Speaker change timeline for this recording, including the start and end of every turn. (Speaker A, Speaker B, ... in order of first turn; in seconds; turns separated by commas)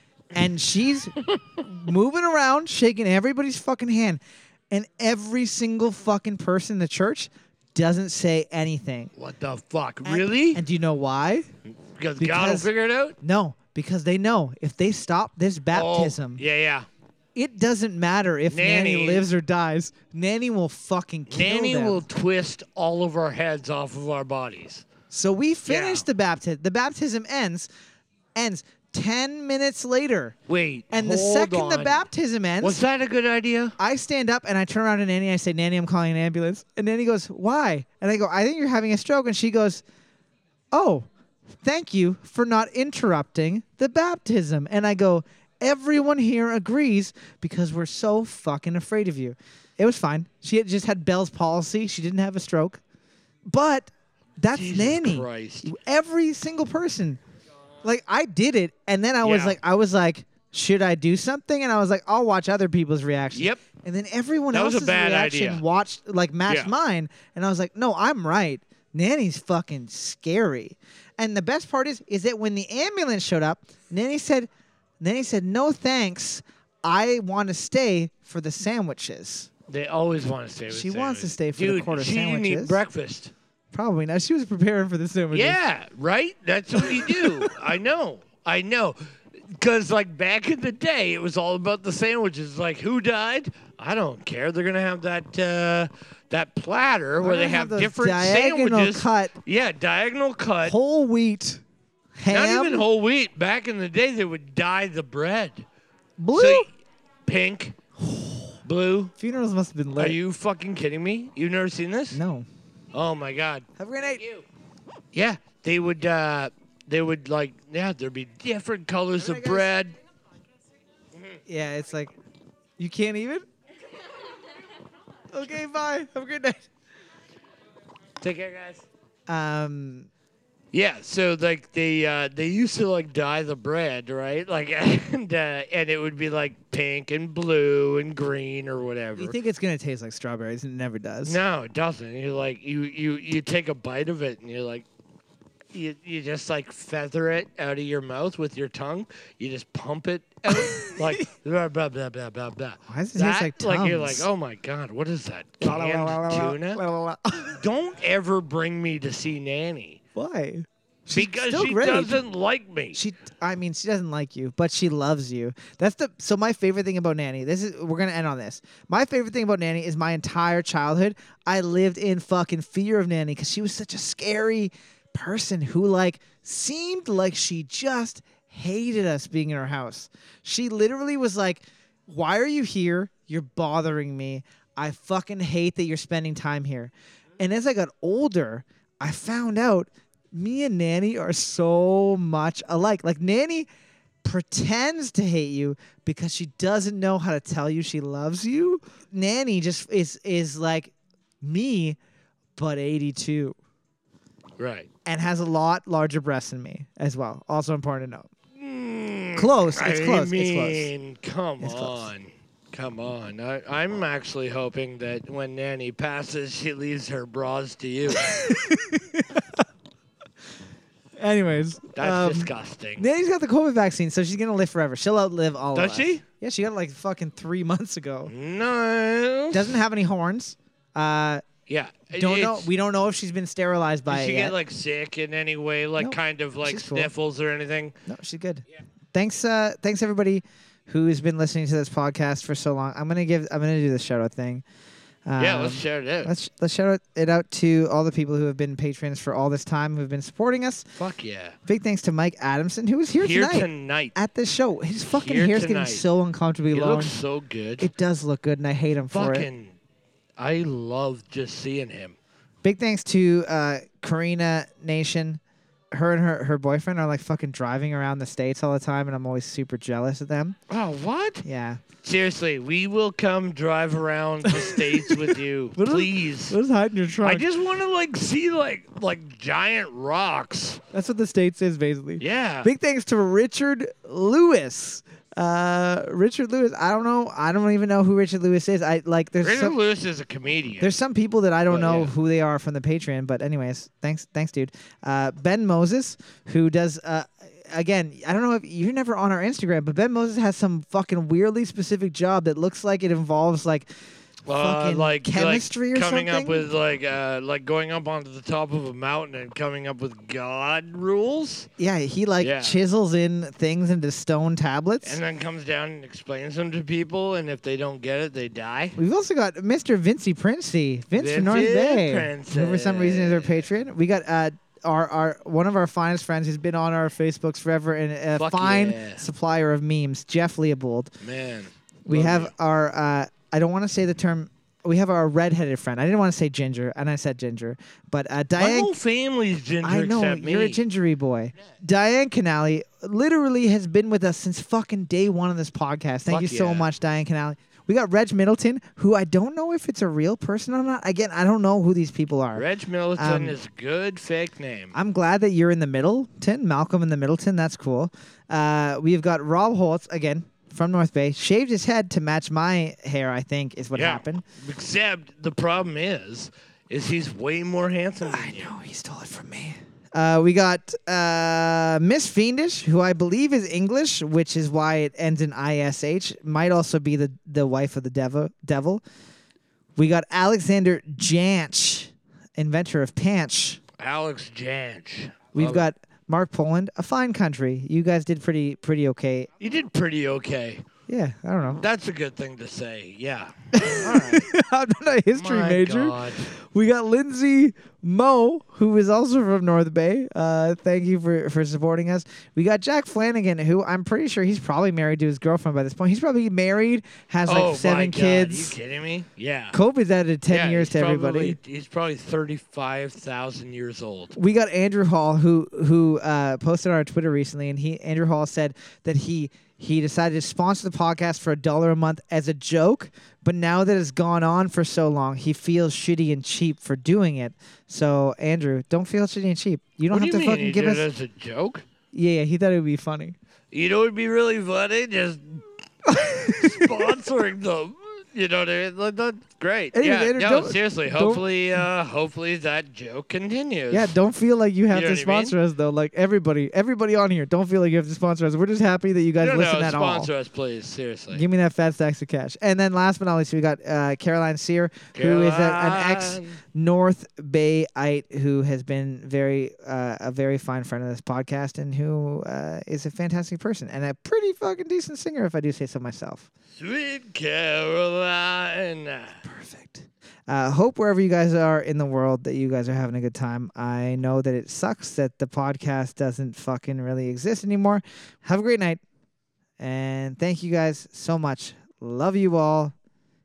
Speaker A: 0.3-9.1, Speaker B: 9.2-10.6, Speaker A: 10.0-11.5, Speaker B: 11.8-13.2, Speaker A: 12.2-12.7, Speaker A: 13.2-16.4, Speaker B: 15.7-16.9, Speaker A: 17.4-22.0, Speaker B: 18.5-19.3, Speaker B: 21.3-24.9, Speaker A: 25.1-27.7, Speaker B: 25.7-26.1, Speaker A: 28.4-30.4, Speaker B: 30.5-32.0, Speaker A: 30.9-32.8, Speaker B: 32.6-33.8, Speaker A: 33.8-39.8, Speaker A: 40.7-41.1, Speaker A: 41.6-52.8, Speaker A: 53.5-57.2, Speaker B: 54.5-55.7, Speaker A: 57.8-74.5, Speaker B: 59.2-59.6, Speaker B: 63.3-63.6, Speaker B: 64.5-65.6, Speaker B: 66.5-66.7, Speaker A: 75.0-79.5, Speaker B: 79.7-83.3, Speaker A: 80.7-82.8, Speaker A: 83.7-85.6, Speaker B: 85.3-89.0, Speaker A: 86.8-87.5, Speaker B: 89.5-100.8, Speaker A: 97.2-99.3, Speaker A: 100.6-101.6, Speaker A: 102.2-102.8, Speaker B: 102.3-105.7, Speaker A: 106.2-106.7, Speaker B: 106.3-106.7, Speaker B: 107.2-107.8, Speaker A: 108.0-108.5, Speaker B: 108.7-109.1, Speaker A: 109.2-110.2, Speaker B: 110.0-112.2, Speaker A: 112.1-112.5, Speaker B: 112.9-114.5, Speaker A: 113.8-114.2, Speaker B: 115.1-120.0, Speaker A: 119.2-119.7, Speaker A: 121.5-122.1, Speaker A: 122.8-123.4, Speaker A: 125.3-126.7, Speaker B: 128.2-128.8, Speaker A: 129.3-130.1, Speaker B: 130.7-139.4, Speaker A: 139.2-141.4, Speaker B: 141.2-144.9, Speaker B: 145.7-156.8, Speaker A: 150.5-151.2, Speaker A: 152.9-154.3, Speaker A: 155.6-157.6, Speaker B: 157.6-160.0, Speaker A: 160.2-162.2, Speaker B: 161.1-163.0, Speaker A: 162.9-193.7, Speaker A: 194.2-202.0, Speaker A: 202.6-203.6, Speaker B: 204.6-204.9, Speaker A: 205.1-208.3, Speaker B: 208.6-218.3, Speaker A: 209.4-210.9, Speaker A: 211.6-212.1, Speaker A: 218.2-219.6, Speaker A: 221.2-228.3, Speaker B: 221.9-223.1, Speaker B: 225.8-226.2, Speaker B: 228.3-229.7, Speaker A: 229.5-231.4, Speaker B: 231.7-232.7, Speaker A: 232.1-234.6, Speaker B: 234.1-238.0, Speaker A: 236.0-237.1, Speaker A: 238.1-244.6, Speaker A: 245.3-250.9, Speaker B: 245.4-246.3, Speaker B: 251.0-251.6, Speaker A: 251.7-257.2, Speaker B: 253.2-254.2, Speaker B: 255.1-256.1, Speaker B: 256.7-257.9, Speaker A: 257.8-259.5, Speaker B: 259.1-259.8, Speaker B: 260.4-262.2, Speaker A: 262.6-265.4, Speaker A: 265.9-270.6, Speaker B: 270.7-271.4, Speaker A: 271.4-271.8, Speaker B: 272.0-276.6, Speaker A: 274.5-277.5, Speaker B: 277.2-280.8, Speaker A: 280.9-289.8, Speaker B: 282.2-282.7, Speaker B: 289.4-291.0, Speaker A: 290.8-303.9, Speaker B: 291.7-292.1, Speaker B: 304.5-311.7, Speaker A: 304.5-306.7, Speaker A: 311.8-315.2, Speaker B: 312.4-312.8, Speaker B: 315.0-319.0, Speaker A: 319.0-331.1, Speaker B: 321.1-323.7, Speaker B: 328.4-329.3, Speaker B: 331.2-332.5, Speaker A: 332.1-338.9, Speaker B: 338.6-340.8, Speaker A: 339.8-353.6, Speaker B: 346.3-346.9, Speaker B: 352.5-354.9, Speaker A: 354.9-364.4, Speaker B: 363.9-368.7, Speaker A: 368.2-379.0, Speaker A: 380.0-383.8, Speaker B: 384.0-385.9, Speaker A: 385.5-389.5, Speaker B: 389.6-390.8, Speaker A: 391.1-391.8, Speaker B: 391.7-394.5, Speaker A: 393.8-408.8, Speaker B: 395.3-396.5, Speaker B: 407.5-409.8, Speaker A: 409.7-411.6, Speaker B: 410.5-414.4, Speaker A: 414.4-431.1, Speaker B: 430.1-431.9, Speaker A: 432.1-433.4, Speaker B: 433.7-444.1, Speaker A: 436.1-437.2, Speaker A: 439.9-441.9, Speaker A: 443.9-450.3, Speaker B: 444.9-445.6, Speaker B: 449.4-451.4, Speaker A: 451.3-466.5, Speaker B: 455.1-456.6, Speaker B: 466.8-469.4, Speaker A: 469.4-479.0, Speaker A: 479.8-482.9